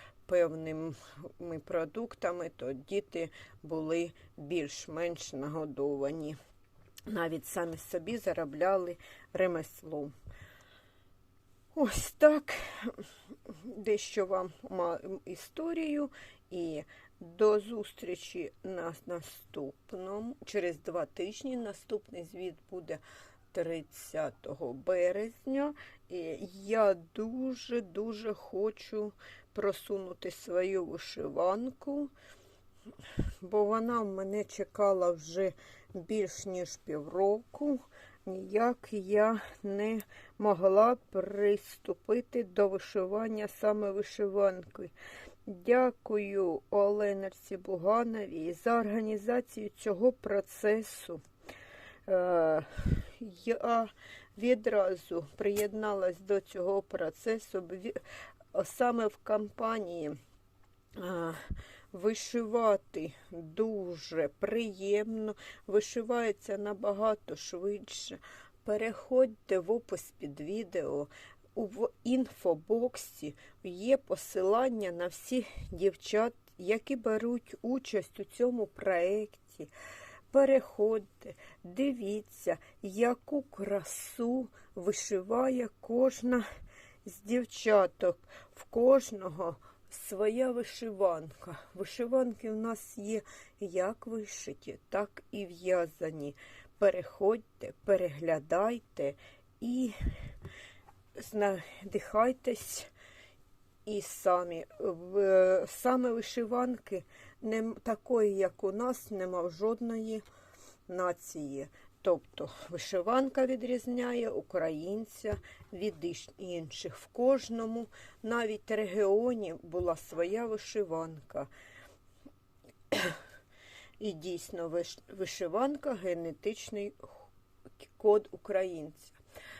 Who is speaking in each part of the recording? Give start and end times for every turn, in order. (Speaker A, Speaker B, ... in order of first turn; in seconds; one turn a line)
Speaker A: 0.3-6.4
Speaker A: 7.1-10.1
Speaker A: 11.7-32.1
Speaker A: 33.4-44.9
Speaker A: 45.5-51.2
Speaker A: 52.1-58.0
Speaker A: 58.5-60.2
Speaker A: 61.0-79.7
Speaker A: 80.3-86.5
Speaker A: 87.0-100.0
Speaker A: 101.2-102.9
Speaker A: 103.8-110.2
Speaker A: 110.9-121.5
Speaker A: 122.9-123.2
Speaker A: 124.0-129.2